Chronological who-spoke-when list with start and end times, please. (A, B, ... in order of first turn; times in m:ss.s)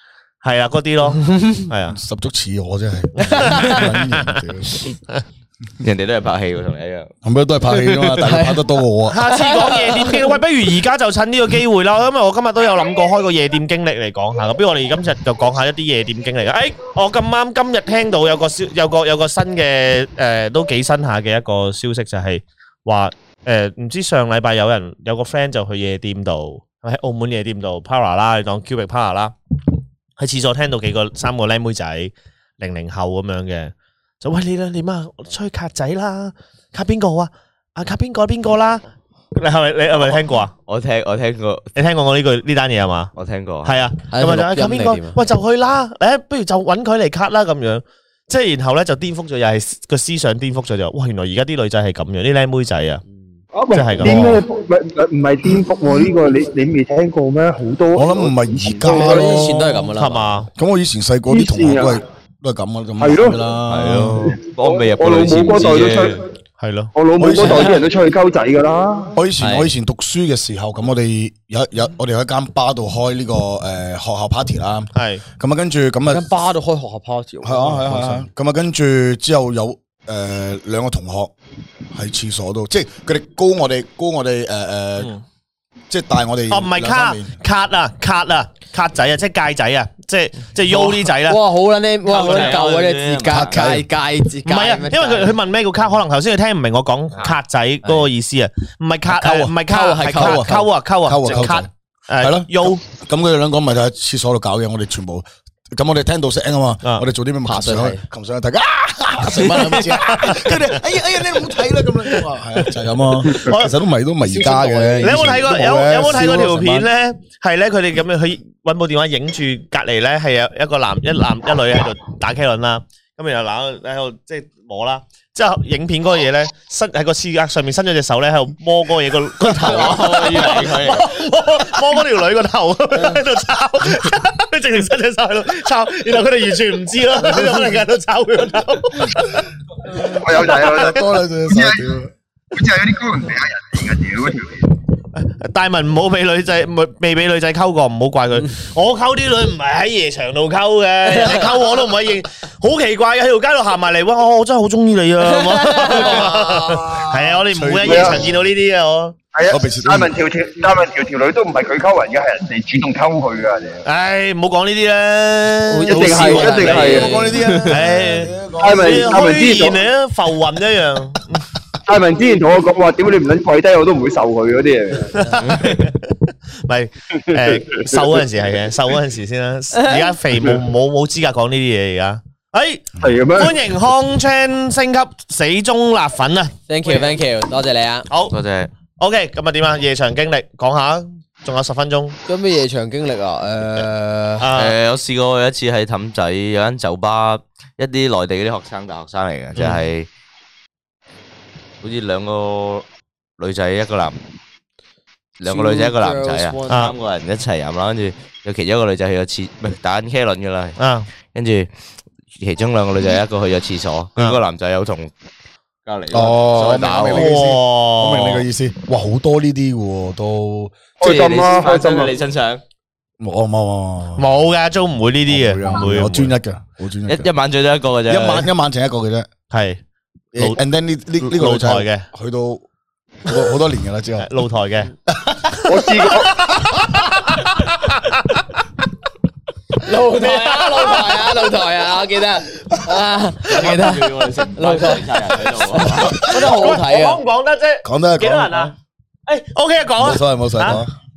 0:00.4-0:02.0 A
0:01.3-0:01.6 B
0:01.9-0:04.8 C
0:03.2-0:03.8 B
0:03.6-0:04.3 A
0:05.8-0:07.1 D
0:07.2-0:09.3 C
0:07.7-0:08.3 D
0:08.3-0:08.6 B
0:09.1-0:29.4 A
0:09.2-0:10.3 B
0:30.2-0:38.8 A
0:39.3-0:40.5 A
0:40.7-0:41.7 D
0:41.8-0:43.1 A
0:43.2-0:43.8 D
0:43.6-0:53.0 A
0:44.1-0:45.2 B
0:53.5-0:59.4 E
0:53.7-0:54.4 A
0:58.0-0:59.9 C
0:58.8-1:00.5 B
0:59.9-1:00.5 A
1:00.6-1:04.3 C
1:01.3-1:02.0 E
1:03.0-1:03.4 E
1:03.7-1:06.2 D
1:04.6-1:06.2 E
1:06.6-1:06.9 A
1:07.0-1:09.1 E
1:07.2-1:07.8 C
1:07.4-1:07.8 B
1:09.2-1:16.3 C
1:09.4-1:09.7 B
1:14.9-1:15.2 A
1:16.1-1:18.2 B
1:17.4-1:21.3 C
1:21.9-1:25.1 C
1:25.9-1:27.4 C
1:26.5-1:31.4 A
1:30.7-1:35.4 B
1:32.1-1:33.6 D
1:32.1-1:32.6 A
1:33.2-1:33.9 C
1:34.4-1:42.8 A
1:39.1-1:39.6 C
1:39.6-1:40.7 B
1:40.1-1:56.9 C
1:47.4-1:48.0 B
1:49.2-1:50.4 B
1:49.9-1:50.8 A
1:53.3-1:53.8 A
1:54.2-1:55.5 B
1:55.0-2:19.5 A
2:09.5-2:11.1 D
2:20.0-2:21.8 E
2:20.3-2:22.1 C
2:22.5-2:24.7 E
2:25.2-2:39.2 A
2:31.1-2:31.5 B
2:35.4-2:36.1 B
2:35.9-2:38.3 C
2:37.8-2:38.2 E
2:39.3-2:43.8 E
2:39.5-2:40.1 C
2:43.8-2:47.1 A
2:45.7-2:47.6 B
2:45.9-2:47.2 E
2:46.6-2:49.6 C
2:47.7-2:51.4 A
2:48.6-2:49.8 E
2:51.8-2:55.1 E
2:55.1-3:07.1 A
2:55.5-2:55.8 D
2:59.8-3:00.1 B
3:03.0-3:03.6 E
3:06.7-3:08.1 B
3:08.1-3:08.4 A
3:08.3-3:08.7 D
3:09.0-3:12.2 A
3:12.3-3:14.5 B
3:14.4-3:14.8 A
3:14.6-3:20.1 D
3:19.6-3:19.8 A
3:21.8-3:22.8 D
3:23.4-3:24.2 D
3:25.4-3:30.8 D
3:25.4-3:26.9 B
3:30.8-3:31.1 A
3:31.3-3:31.7 D
3:32.3-3:35.1 D
3:35.9-3:37.3 D
3:36.1-3:40.7 C
3:37.1-3:38.4 A
3:41.0-3:42.1 E
3:41.0-3:42.6 D
3:43.2-3:44.3 C
3:44.2-3:46.4 A
3:45.3-3:47.3 C
3:47.1-3:48.5 D
3:48.1-3:49.3 C
3:49.5-3:49.8 A
3:50.3-3:52.6 C
3:51.2-3:52.1 A
3:53.3-3:54.3 C
3:54.2-3:54.9 A
3:55.1-3:55.5 C
3:55.7-3:56.4 E
3:56.1-3:58.4 A
3:59.8-4:07.2 B
4:00.1-4:01.2 A
4:03.5-4:06.3 D
4:06.2-4:08.7 A
4:07.8-4:08.7 C
4:09.3-4:10.8 A
4:10.0-4:10.9 C